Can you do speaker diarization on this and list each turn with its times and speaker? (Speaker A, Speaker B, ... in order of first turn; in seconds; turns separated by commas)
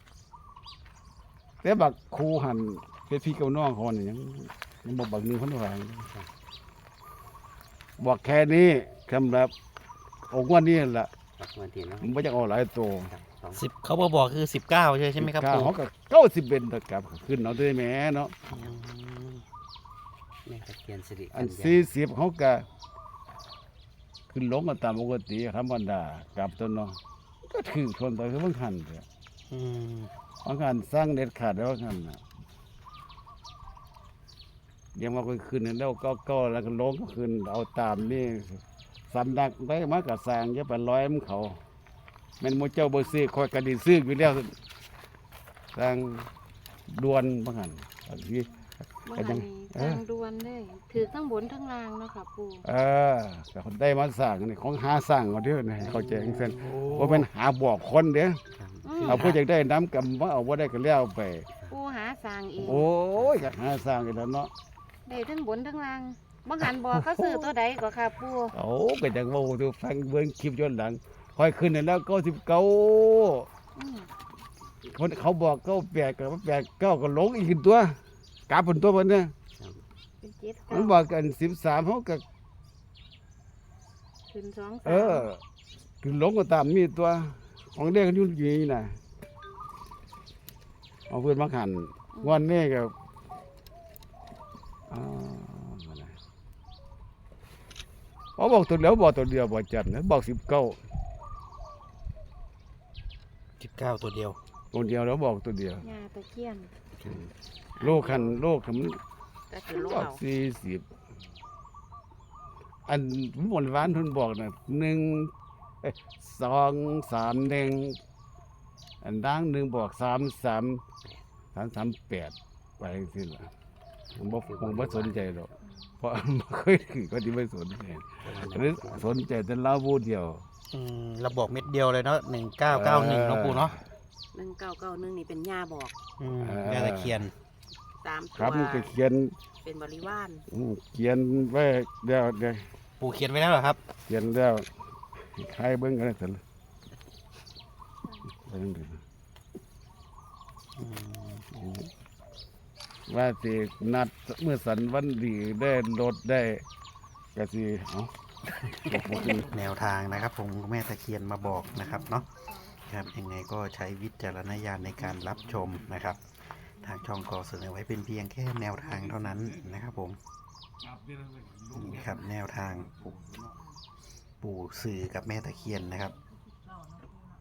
Speaker A: 1.6-6.1, Speaker A: 8.0-9.5, Speaker A: 10.3-11.1, Speaker B: 11.4-12.1, Speaker A: 12.0-13.1, Speaker B: 13.0-13.6, Speaker C: 13.5-15.7, Speaker A: 15.2-18.3, Speaker C: 18.4-19.4, Speaker B: 20.4-21.9, Speaker A: 21.3-22.6, Speaker A: 24.3-29.0, Speaker C: 29.5-30.1, Speaker A: 30.4-32.2, Speaker A: 34.9-41.6, Speaker A: 42.4-44.5, Speaker A: 45.7-46.3, Speaker A: 46.9-48.5, Speaker D: 49.0-52.6, Speaker A: 49.1-50.0, Speaker A: 52.6-58.4, Speaker C: 56.1-57.3, Speaker B: 58.5-59.0, Speaker D: 58.8-59.2, Speaker C: 59.0-59.4, Speaker A: 59.0-61.5, Speaker D: 61.7-62.8, Speaker B: 62.6-63.8, Speaker A: 62.6-64.5, Speaker D: 65.0-68.5, Speaker A: 66.7-67.5, Speaker A: 68.5-73.5, Speaker D: 73.8-74.1, Speaker A: 74.9-78.0, Speaker A: 78.5-79.3, Speaker B: 79.5-79.8, Speaker D: 80.2-81.0, Speaker A: 80.7-82.2, Speaker D: 84.3-85.3, Speaker A: 84.8-85.4, Speaker A: 86.0-89.0, Speaker A: 91.1-92.9, Speaker A: 94.9-96.1, Speaker A: 98.4-100.8, Speaker C: 103.6-104.4, Speaker A: 104.7-105.9, Speaker D: 105.8-106.7, Speaker A: 107.8-109.0, Speaker E: 107.8-108.3, Speaker E: 109.5-110.2, Speaker A: 109.7-110.8, Speaker A: 112.9-115.3, Speaker A: 115.8-118.0, Speaker A: 119.0-120.8, Speaker A: 121.5-123.5, Speaker B: 124.1-125.6, Speaker A: 124.2-125.5, Speaker A: 126.0-130.4, Speaker B: 128.2-129.2, Speaker C: 130.7-133.8, Speaker A: 132.7-133.8, Speaker E: 134.3-135.9, Speaker C: 136.2-137.3, Speaker A: 136.4-137.3, Speaker E: 138.0-138.9, Speaker A: 138.3-139.3, Speaker E: 139.6-140.4, Speaker A: 140.5-142.7, Speaker C: 143.0-143.8, Speaker A: 144.0-146.4, Speaker A: 148.4-149.0, Speaker C: 150.8-151.5, Speaker A: 151.5-151.9, Speaker A: 153.1-156.6, Speaker A: 157.3-158.1, Speaker A: 158.7-159.5, Speaker C: 158.9-162.3, Speaker C: 162.8-166.2, Speaker C: 166.8-170.2, Speaker A: 170.9-173.5, Speaker C: 171.7-173.2, Speaker C: 174.4-176.1